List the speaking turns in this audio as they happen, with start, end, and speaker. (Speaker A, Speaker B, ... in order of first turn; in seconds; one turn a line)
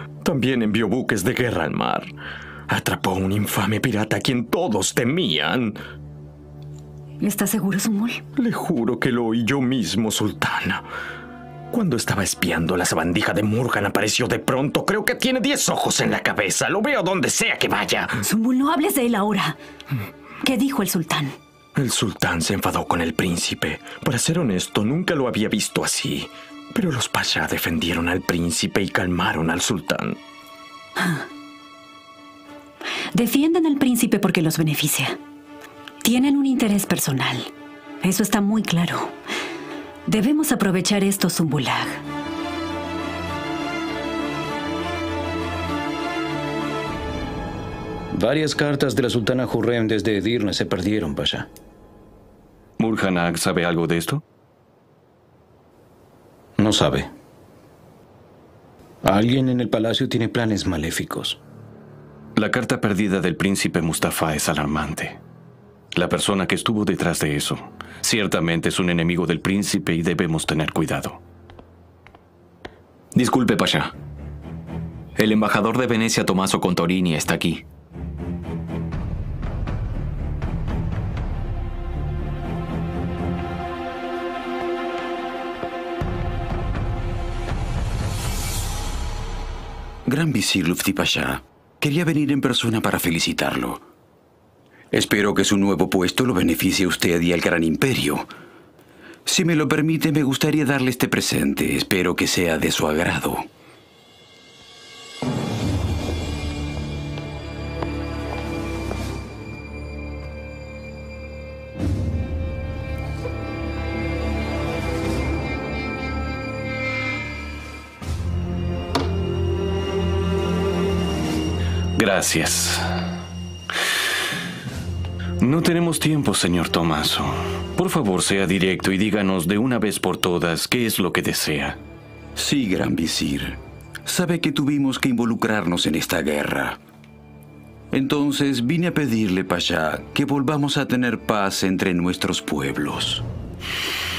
Speaker A: 0.2-2.1
Speaker A: 2.7-5.8
Speaker B: 7.2-8.2
Speaker A: 8.4-10.8
Speaker A: 11.7-18.1
Speaker B: 18.2-19.6
Speaker B: 20.4-21.4
Speaker A: 21.8-30.2
Speaker B: 31.0-31.3
Speaker B: 33.1-35.2
Speaker B: 36.0-39.1
Speaker B: 40.1-42.0
Speaker C: 48.1-51.5
Speaker D: 52.8-54.2
Speaker C: 56.6-57.1
Speaker C: 59.0-61.4
Speaker D: 62.4-65.2
Speaker D: 65.9-71.2
Speaker E: 73.2-73.9
Speaker E: 75.2-77.6
Speaker F: 90.1-93.8
Speaker F: 94.9-98.3
Speaker F: 99.3-103.5
Speaker D: 122.0-122.9
Speaker D: 125.4-131.8
Speaker F: 132.4-136.8
Speaker F: 137.9-143.2